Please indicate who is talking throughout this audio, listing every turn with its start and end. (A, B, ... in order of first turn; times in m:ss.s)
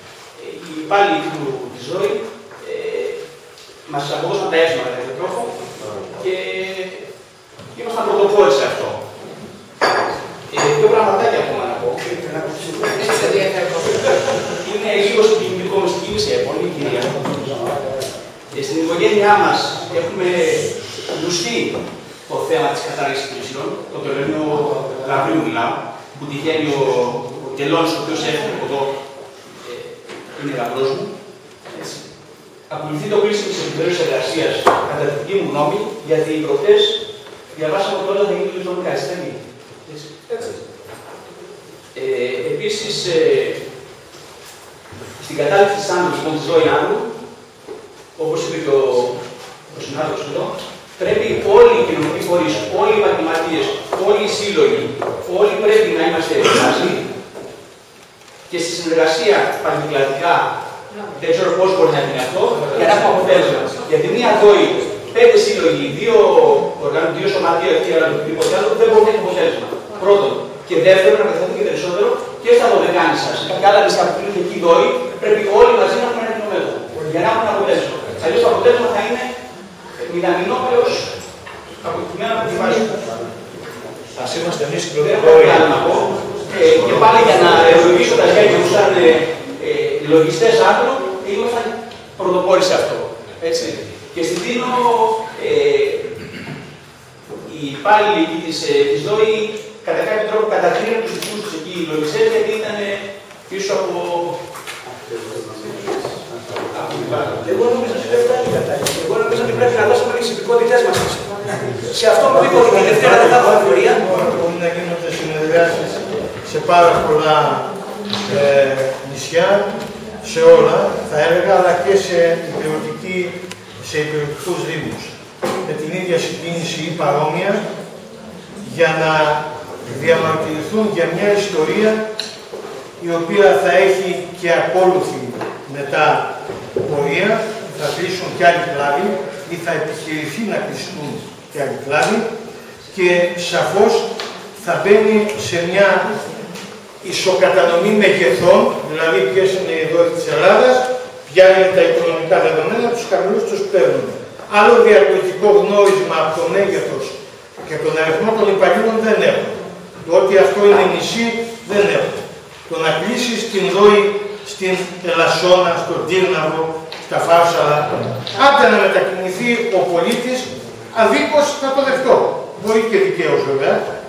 0:00.4-0:03.2 A
0:03.8-0:07.0 A
0:07.7-0:09.0 A
0:10.5-0:17.7 A
0:18.5-0:28.9 A
0:29.6-0:31.1 A
0:31.7-0:32.0 A
0:32.7-0:40.6 A
0:41.9-0:43.6 A
0:45.2-0:47.1 A
0:48.2-0:49.2 A
0:49.7-0:57.0 A
0:58.5-1:00.5 A
1:01.1-1:19.3 A
1:20.0-1:21.1 A
1:21.8-1:23.1 A
1:24.2-1:25.8 B
1:25.0-1:36.1 A
1:26.6-1:28.9 B
1:37.4-1:44.4 A
1:46.7-1:47.4 A
1:47.3-1:54.0 C
1:53.1-1:57.7 D
1:58.2-1:59.7 D
2:00.2-2:05.1 D
2:05.6-2:07.6 D
2:08.6-2:12.0 D
2:13.0-2:16.3 D
2:16.8-2:22.3 D
2:22.9-2:26.1 D
2:27.0-2:53.8 D